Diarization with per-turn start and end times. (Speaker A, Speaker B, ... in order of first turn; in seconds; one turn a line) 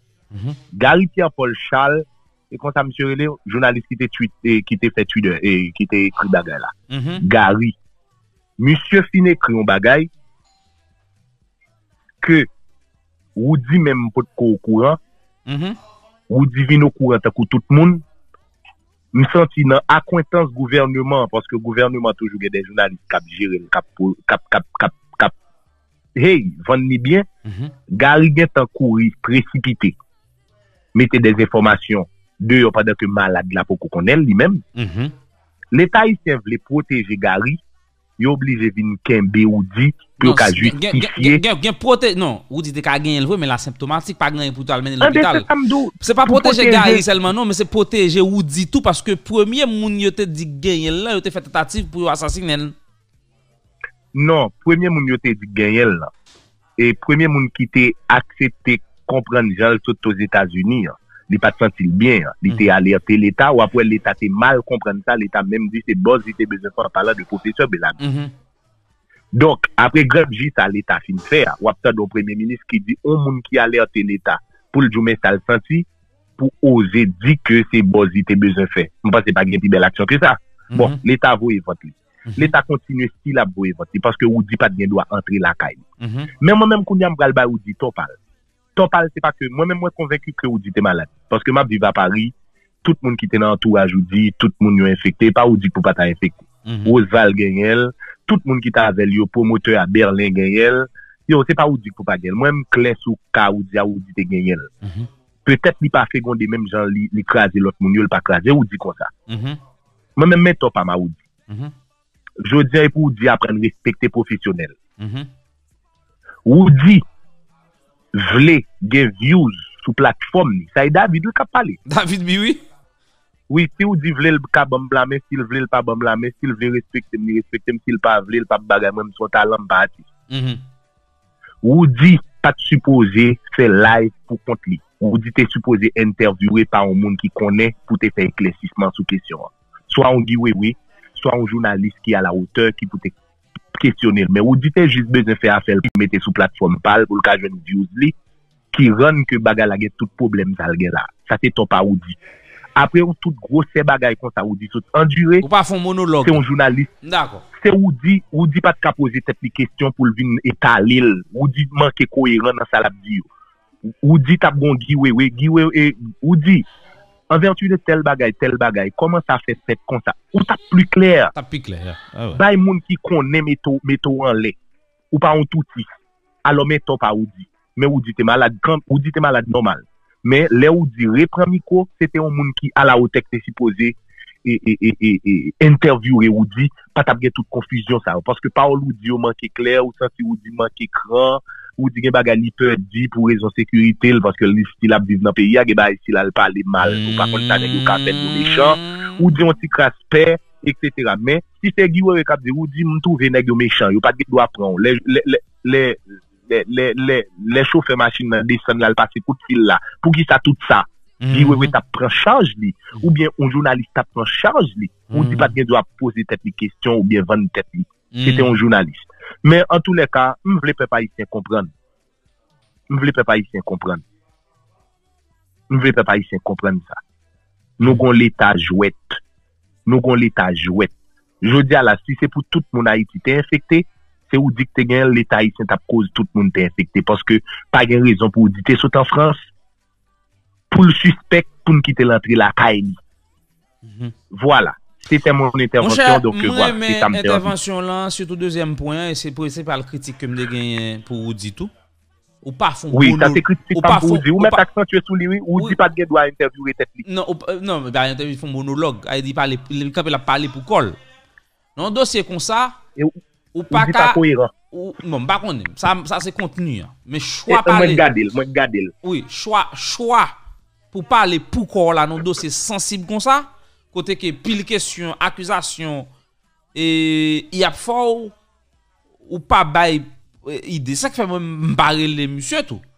Speaker A: 0.3-0.6
Speaker B: 0.7-7.8
Speaker A: 6.9-7.2
Speaker B: 8.6-10.1
Speaker B: 12.2-12.5
Speaker B: 13.3-15.0
Speaker A: 15.5-15.8
Speaker B: 16.3-18.0
Speaker B: 19.1-25.3
Speaker B: 26.1-27.3
Speaker A: 27.4-27.7
Speaker B: 27.9-29.9
Speaker B: 30.9-34.6
Speaker A: 34.8-35.1
Speaker B: 35.7-37.6
Speaker B: 38.2-41.4
Speaker A: 40.2-45.5
Speaker B: 45.0-47.2
Speaker A: 46.0-52.7
Speaker B: 54.1-56.1
Speaker B: 56.8-68.0
Speaker A: 68.0-68.3
Speaker B: 69.3-75.8
Speaker B: 76.4-85.8
Speaker A: 80.7-81.0
Speaker A: 82.3-82.5
Speaker A: 86.0-86.3
Speaker B: 86.4-88.2
Speaker B: 88.8-92.3
Speaker B: 92.8-104.7
Speaker A: 96.7-96.9
Speaker A: 104.8-105.1
Speaker B: 105.4-109.1
Speaker A: 109.3-109.6
Speaker B: 110.2-111.2
Speaker B: 112.4-114.8
Speaker A: 115.0-115.3
Speaker B: 116.5-117.0
Speaker B: 118.1-121.8
Speaker A: 121.9-122.6
Speaker B: 123.5-130.1
Speaker A: 130.3-130.6
Speaker B: 131.6-143.1
Speaker B: 143.7-148.1
Speaker B: 148.7-152.2
Speaker B: 152.8-155.4
Speaker A: 155.4-156.4
Speaker B: 156.2-156.9
Speaker A: 157.0-157.4
Speaker B: 157.5-163.3
Speaker B: 164.0-166.7
Speaker B: 167.3-171.3
Speaker A: 171.3-172.4
Speaker B: 172.3-174.5
Speaker B: 175.1-175.9
Speaker B: 176.4-221.7
Speaker A: 196.8-199.2
Speaker A: 211.2-211.7
Speaker A: 215.1-215.5
Speaker A: 218.1-218.5
Speaker B: 222.9-224.0
Speaker B: 225.7-227.0
Speaker B: 227.8-229.2
Speaker B: 229.8-239.5
Speaker B: 240.7-243.0
Speaker A: 243.8-244.1
Speaker B: 244.3-247.5
Speaker A: 245.8-251.7
Speaker A: 252.4-254.6
Speaker B: 252.9-257.0
Speaker A: 257.0-261.0
Speaker A: 261.8-262.8
Speaker A: 263.5-264.2
Speaker B: 263.7-264.5
Speaker A: 264.7-268.0
Speaker B: 267.5-268.9
Speaker A: 269.0-270.3
Speaker A: 270.9-276.1
Speaker A: 276.7-278.3
Speaker A: 279.3-282.8